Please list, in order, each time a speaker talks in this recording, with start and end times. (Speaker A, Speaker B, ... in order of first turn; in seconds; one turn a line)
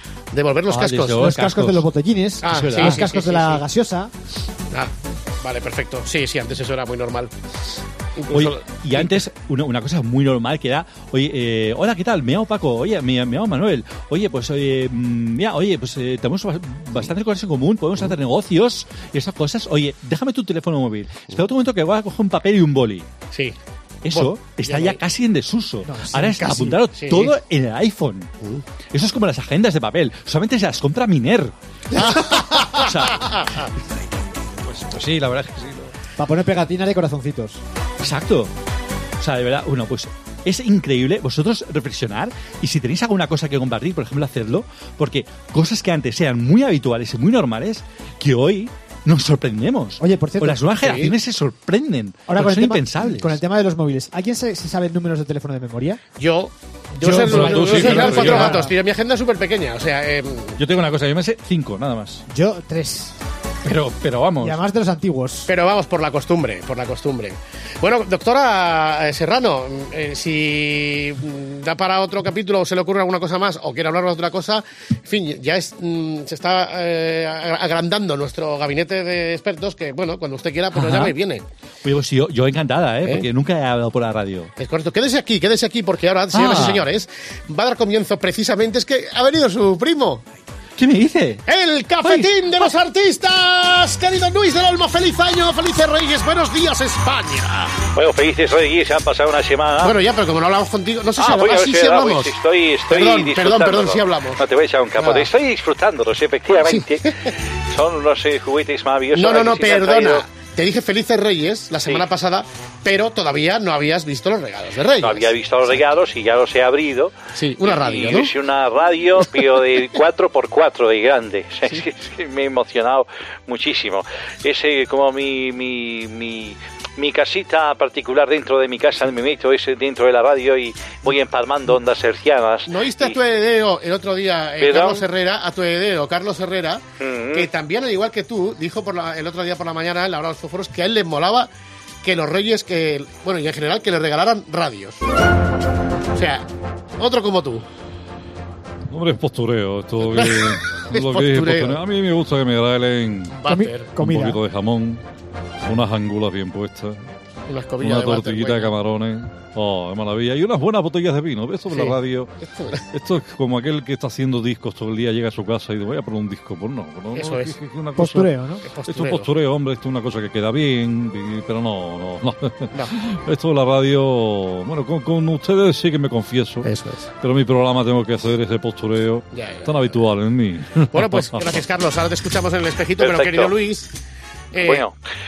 Speaker A: 0.3-1.3
Speaker B: 0.7-1.9
Speaker C: 1.2-4.1
Speaker A: 2.4-3.6
Speaker B: 2.5-3.1
Speaker A: 5.4-7.3
Speaker A: 8.2-9.2
Speaker B: 8.3-23.1
Speaker B: 24.1-28.3
Speaker A: 24.1-25.0
Speaker C: 25.9-26.8
Speaker A: 27.0-27.4
Speaker B: 28.9-33.4
Speaker C: 32.0-32.6
Speaker A: 32.1-32.5
Speaker B: 34.7-35.9
Speaker C: 36.2-37.6
Speaker B: 38.0-38.5
Speaker B: 39.2-53.4
Speaker C: 50.0-50.6
Speaker A: 50.8-51.1
Speaker C: 52.3-56.0
Speaker A: 56.2-60.6
Speaker C: 57.0-58.7
Speaker B: 57.2-58.6
Speaker B: 60.6-62.2
Speaker C: 62.3-63.1
Speaker B: 63.6-64.6
Speaker C: 64.4-65.5
Speaker A: 65.5-81.4
Speaker B: 80.7-81.2
Speaker B: 81.8-84.5
Speaker A: 84.6-90.2
Speaker B: 86.3-86.9
Speaker B: 90.8-91.4
Speaker A: 91.5-97.9
Speaker B: 92.0-92.3
Speaker D: 98.0-99.8
Speaker B: 99.1-99.9
Speaker A: 99.8-102.4
Speaker D: 101.2-104.0
Speaker B: 102.1-103.8
Speaker A: 102.9-104.4
Speaker B: 104.4-106.9
Speaker D: 104.5-106.9
Speaker A: 105.0-105.3
Speaker A: 106.5-107.1
Speaker B: 107.7-110.1
Speaker D: 107.8-110.2
Speaker A: 109.1-115.8
Speaker B: 115.0-116.3
Speaker D: 115.0-117.1
Speaker A: 117.3-118.3
Speaker D: 117.6-133.1
Speaker B: 118.1-118.7
Speaker B: 119.2-121.4
Speaker B: 126.4-127.0
Speaker B: 128.3-129.5
Speaker B: 130.9-132.1
Speaker A: 132.7-141.5
Speaker D: 134.6-135.0
Speaker D: 137.0-137.4
Speaker A: 142.0-145.0
Speaker A: 146.1-146.5
Speaker A: 147.0-147.7
Speaker E: 148.9-153.4
Speaker A: 150.0-151.8
Speaker A: 153.4-153.9
Speaker C: 153.5-154.4
Speaker E: 154.0-155.0
Speaker E: 155.6-157.1
Speaker A: 157.5-158.7
Speaker E: 157.8-162.3
Speaker A: 161.7-162.0
Speaker E: 162.9-168.3
Speaker A: 167.1-167.6
Speaker C: 168.0-168.6
Speaker A: 168.7-169.3
Speaker E: 168.9-176.7
Speaker A: 176.6-177.1
Speaker E: 177.2-181.6
Speaker A: 179.3-179.7
Speaker A: 180.9-183.9
Speaker D: 183.0-183.5
Speaker A: 184.5-184.8